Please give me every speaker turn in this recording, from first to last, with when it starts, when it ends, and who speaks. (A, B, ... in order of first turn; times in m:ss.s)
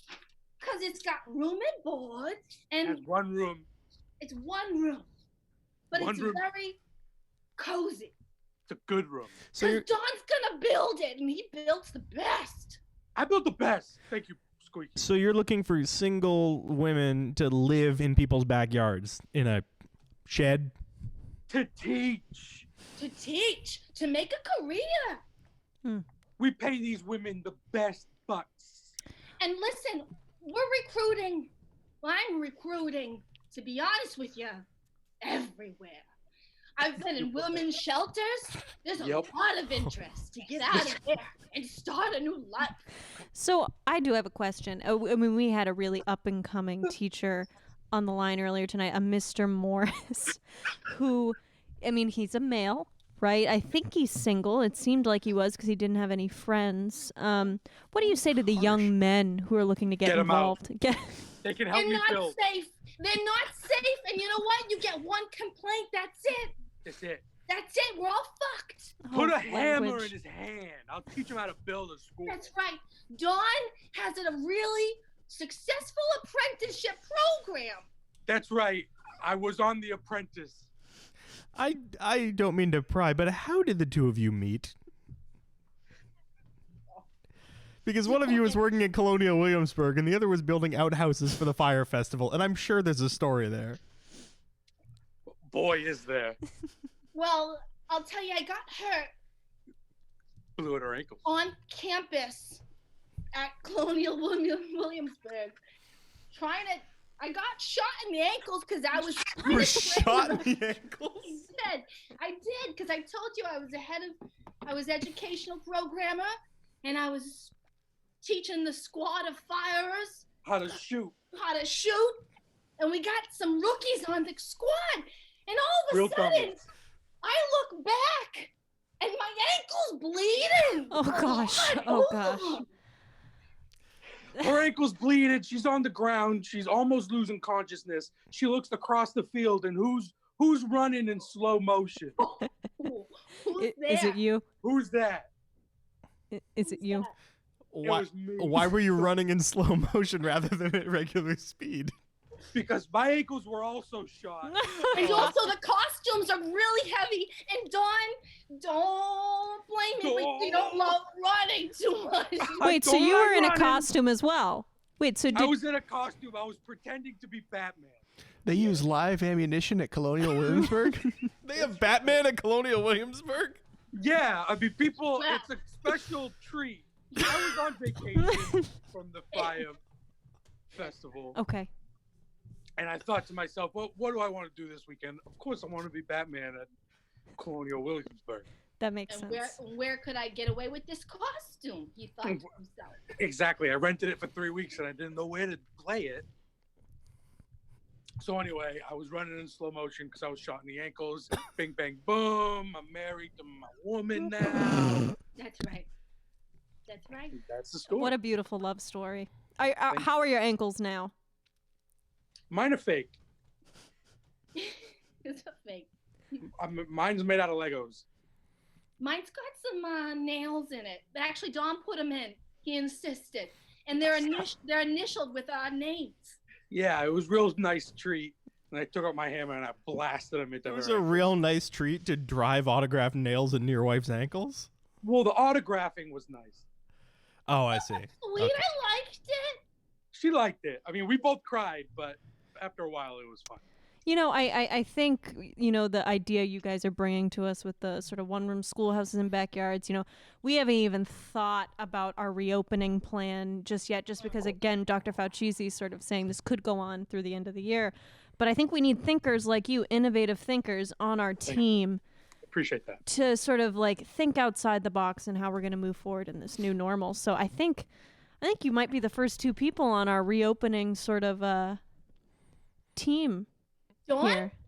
0:00.6-0:03.0 A
0:02.8-0:03.7 B
0:04.2-0:05.1 A
0:05.9-0:06.8 A
0:05.9-0:06.4 B
0:07.6-0:08.1 A
0:08.7-0:09.3 B
0:09.5-0:09.8 C
0:09.6-0:12.8 A
0:13.2-0:15.1 B
0:15.0-0:19.6 C
0:20.2-0:20.7 C
0:21.5-0:22.6 B
0:23.0-0:25.2 A
0:26.4-0:28.9 B
0:29.4-0:34.6 A
0:35.2-0:36.1 A
0:36.8-0:42.8 A
0:39.0-0:39.3 B
0:43.3-1:01.4 D
0:58.6-0:58.9 B
1:00.0-1:00.6 B
1:01.4-1:02.4 B
1:01.7-1:06.5 A
1:06.8-1:07.2 B
1:07.5-1:09.0 A
1:09.0-1:10.1 D
1:09.1-1:12.5 B
1:12.3-1:17.9 A
1:18.3-1:20.7 B
1:21.5-1:24.7 C
1:27.8-1:33.8 C
1:28.0-1:28.6 A
1:35.2-1:36.4 B
1:37.1-1:39.1 A
1:40.6-1:41.2 B
1:41.2-1:42.6 A
1:43.3-1:45.6 A
1:46.3-1:50.5 A
1:49.4-1:51.4 C
1:51.2-1:57.5 A
1:58.2-2:00.2 A
2:00.4-2:01.1 B
2:01.3-2:02.2 A
2:02.8-2:06.6 A
2:05.9-2:06.5 B
2:07.2-2:12.6 A
2:10.9-2:12.6 D
2:14.4-2:22.2 B
2:22.2-2:24.2 A
2:23.6-2:24.4 D
2:24.6-2:25.3 B
2:26.3-2:27.1 D
2:26.6-2:27.1 A
2:27.7-2:31.9 C
2:27.8-2:29.1 B
2:32.5-2:35.3 B
2:34.4-2:35.4 D
2:34.9-2:42.7 A
2:40.0-2:41.0 B
2:42.4-2:43.9 B
2:42.6-2:45.6 D
2:45.3-2:48.8 B
2:48.4-2:50.9 E
2:48.6-2:48.8 C
2:50.2-2:53.6 C
2:50.5-2:50.8 D
2:53.9-2:59.8 B
2:55.1-2:55.5 A
2:58.1-2:58.5 D
3:00.7-3:01.4 B
3:01.3-3:01.7 D
3:02.8-3:06.7 B
3:07.4-3:08.5 B
3:08.8-3:09.6 D
3:09.1-3:13.0 A
3:13.2-3:16.2 B
3:18.2-3:25.1 B
3:25.4-3:25.9 A
3:26.9-3:27.4 A
3:27.3-3:28.1 B
3:27.9-3:31.1 D
3:32.5-3:33.2 B
3:34.6-3:35.9 A
3:36.6-3:38.0 B
3:39.0-3:46.4 A
3:46.7-3:51.3 B
3:50.6-3:54.7 C
3:55.0-3:56.6 B
3:57.5-3:58.6 C
3:57.7-3:59.6 A
4:00.1-4:03.6 B
4:04.0-4:22.0 D
4:22.5-4:23.0 B
4:23.0-4:27.9 D
4:28.4-4:31.8 D
4:32.9-4:33.5 D
4:34.1-4:34.5 A
4:34.2-4:34.5 D